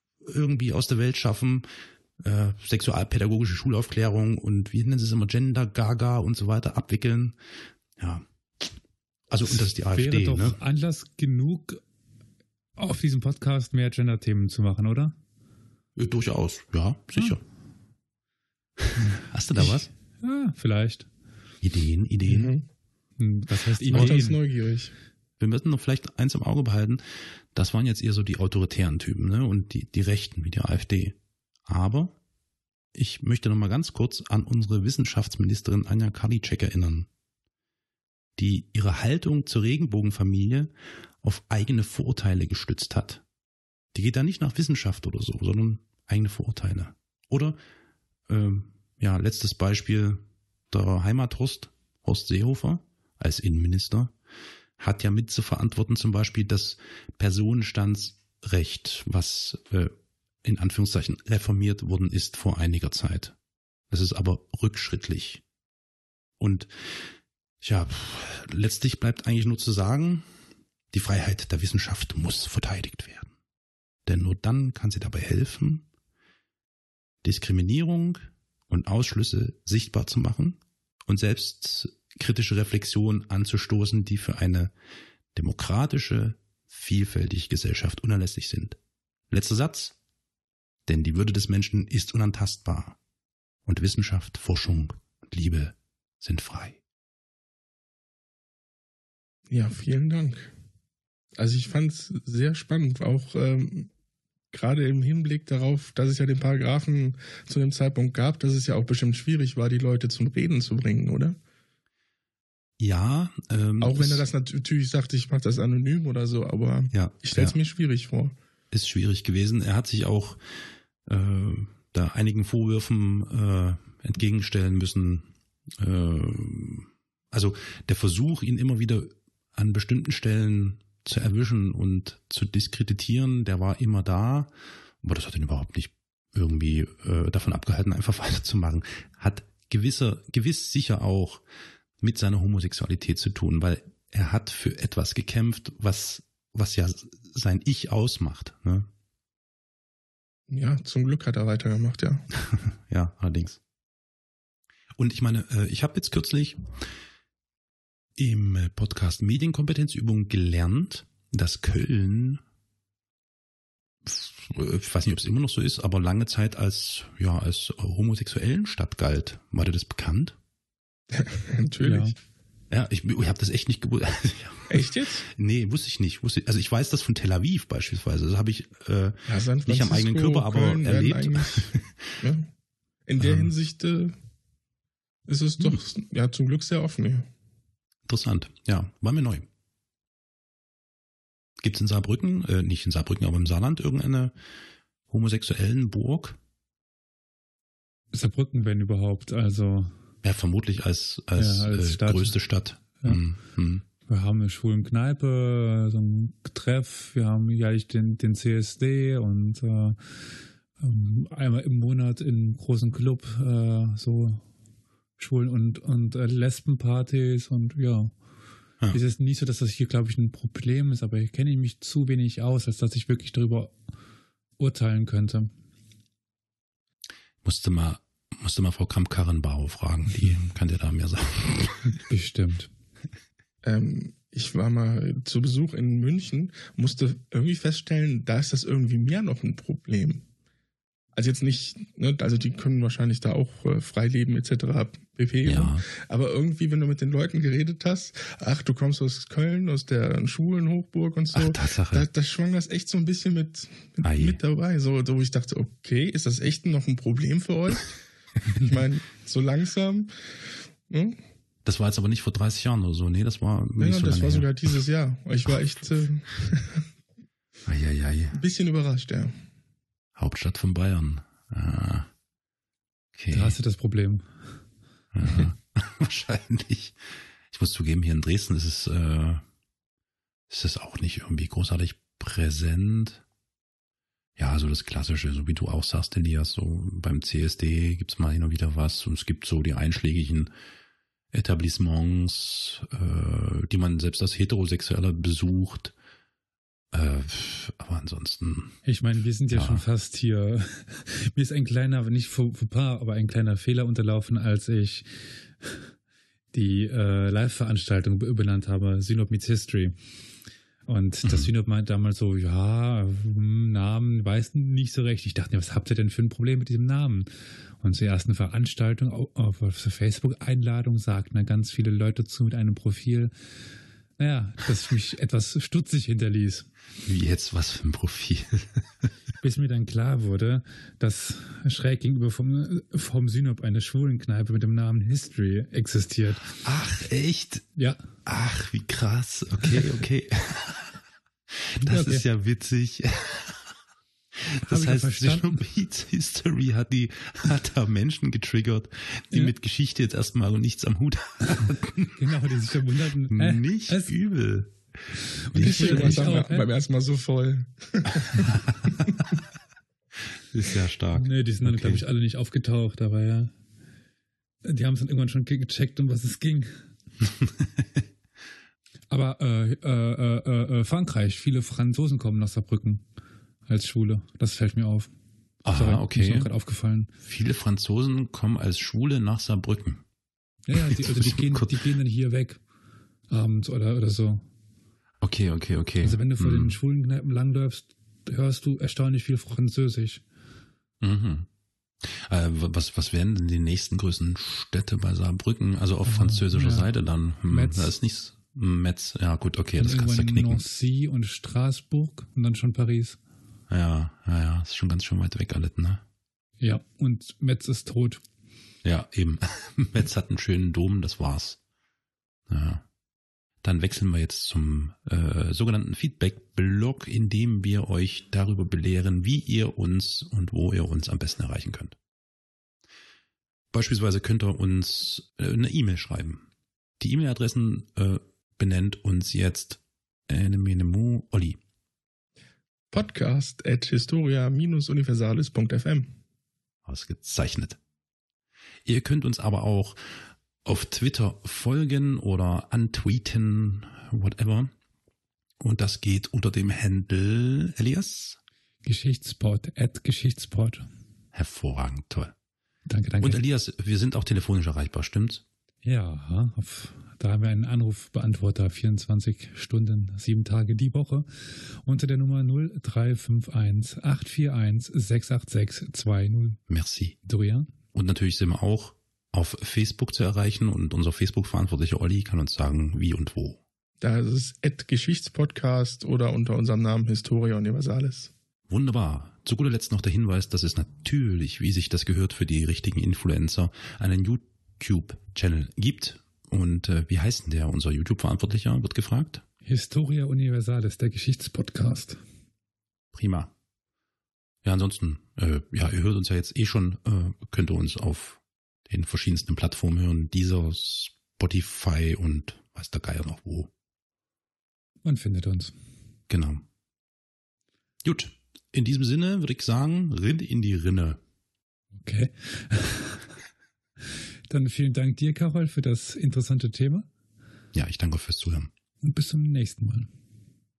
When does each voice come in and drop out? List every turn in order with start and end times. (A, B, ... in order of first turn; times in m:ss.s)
0:00.2-0:01.7 A
0:02.2-0:07.4 A
0:08.0-0:08.6 A
0:09.3-0:10.6 A
0:09.6-0:11.8 B
0:12.8-0:15.1 B
0:16.0-0:17.4 A
0:18.8-0:19.9 A
0:19.0-0:21.1 B
0:21.6-0:22.5 A
0:22.3-0:22.6 C
0:23.2-0:24.4 B
0:23.8-0:24.9 C
0:23.9-0:24.2 A
0:25.4-0:27.0 A
0:27.5-0:32.2 A
0:32.9-0:37.1 A
0:38.4-0:40.7 A
0:41.2-0:43.2 A
0:43.9-0:47.6 A
0:48.3-0:54.1 A
0:54.8-0:59.9 A
1:00.4-1:03.4 A
1:03.9-1:05.4 A
1:06.4-1:06.7 A
1:07.6-1:10.2 A
1:10.9-1:13.3 A
1:14.1-1:15.8 A
1:17.2-1:24.7 A
1:25.4-1:28.8 A
1:29.3-1:30.0 A
1:30.9-1:33.0 A
1:33.7-1:36.8 A
1:39.5-1:40.5 C
1:41.4-1:43.9 C
1:44.5-1:51.4 C
1:52.8-1:54.2 A
1:53.8-1:58.4 C
1:56.9-1:57.6 A
1:58.7-2:00.4 A
2:01.1-2:14.5 A
2:15.0-2:21.4 A
2:22.0-2:28.9 A
2:30.5-2:32.2 C
2:32.4-2:33.6 A
2:35.0-2:36.6 A
2:38.2-2:42.4 A
2:44.1-2:50.4 A
2:51.1-2:52.2 C
2:51.8-2:52.2 B
2:52.7-3:02.1 A
2:54.7-2:55.3 C
2:59.3-3:02.5 C
3:03.1-3:04.2 C
3:03.2-3:03.5 A
3:05.3-3:07.3 C
3:08.1-3:09.5 A
3:11.6-3:14.4 A
3:15.1-3:16.4 A
3:18.1-3:20.0 B
3:20.2-3:23.8 A
3:21.4-3:23.2 B
3:24.1-3:30.3 B
3:30.8-3:34.4 B
3:35.2-3:38.1 B
3:38.9-3:43.7 B
3:44.6-3:45.5 B
3:47.4-3:52.0 A
3:52.0-3:52.7 B
3:53.6-4:00.2 C
4:01.1-4:18.0 C
4:05.4-4:05.8 A
4:11.3-4:12.1 A
4:14.0-4:14.4 A
4:18.6-4:20.1 C
4:20.9-4:21.2 C
4:21.6-4:24.5 A
4:23.8-4:26.9 C
4:27.7-4:28.4 A
4:28.3-4:29.4 C
4:30.2-4:32.1 A
4:33.2-4:33.6 A
4:33.3-4:34.3 B
4:35.1-4:37.0 A
4:37.5-4:39.4 A
4:40.5-4:43.2 A
4:44.4-4:50.5 A
4:51.3-4:55.9 A
4:56.9-4:58.8 A
4:58.8-5:05.9 B
4:59.5-4:59.8 A
5:06.5-5:10.0 B
5:10.9-5:17.3 B
5:11.2-5:11.5 A
5:17.8-5:23.3 B
5:24.2-5:26.7 B
5:27.0-5:29.1 A
5:29.4-5:36.6 B
5:36.6-5:37.7 A
5:37.8-5:38.0 B
5:38.2-5:40.9 A
5:41.8-5:42.2 B
5:41.8-5:43.6 A
5:44.5-5:52.2 A
5:44.5-5:45.6 B
5:52.1-5:54.2 B
5:53.3-5:54.8 A
5:55.5-5:56.4 A
5:55.5-5:56.7 B
5:55.6-5:58.5 C
5:58.1-5:59.2 A
6:00.4-6:02.0 A
6:01.2-6:03.5 B
6:04.6-6:06.8 B
6:07.4-6:08.0 A
6:09.1-6:13.0 B
6:13.7-6:15.1 B
6:15.6-6:16.5 A
6:15.7-6:17.1 B
6:17.2-6:20.0 A
6:20.7-6:22.6 B
6:20.8-6:21.8 A
6:23.3-6:24.5 B
6:25.2-6:26.8 A
6:26.0-6:30.2 B
6:31.0-6:31.5 A
6:32.0-6:40.6 A
6:36.1-6:36.9 B
6:37.5-6:37.9 B
6:39.8-6:43.2 B
6:43.7-6:46.0 A
6:46.6-6:48.2 B
6:48.8-6:51.6 A
6:52.5-6:52.8 A
6:53.6-7:02.0 A
7:03.7-7:06.4 A
7:07.0-7:11.6 A
7:12.9-7:16.2 C
7:16.9-7:17.8 A
7:18.9-7:20.0 A
7:20.6-7:24.7 A
7:25.6-7:28.4 A
7:28.8-7:30.9 B
7:31.3-7:32.3 A
7:32.9-7:33.4 B
7:33.2-7:35.4 A
7:35.8-7:46.6 B
7:46.7-7:47.2 A
7:47.3-7:47.7 B
7:47.9-7:53.6 A
7:54.0-7:58.3 C
7:58.7-8:09.4 A
8:09.6-8:12.2 B
8:13.1-8:13.5 A
8:14.6-8:23.7 A
8:25.0-8:25.7 B
8:26.3-8:26.6 A
8:28.0-8:31.2 A
8:32.0-8:33.3 B
8:34.5-8:37.1 B
8:37.7-8:38.7 A
8:39.0-8:40.1 B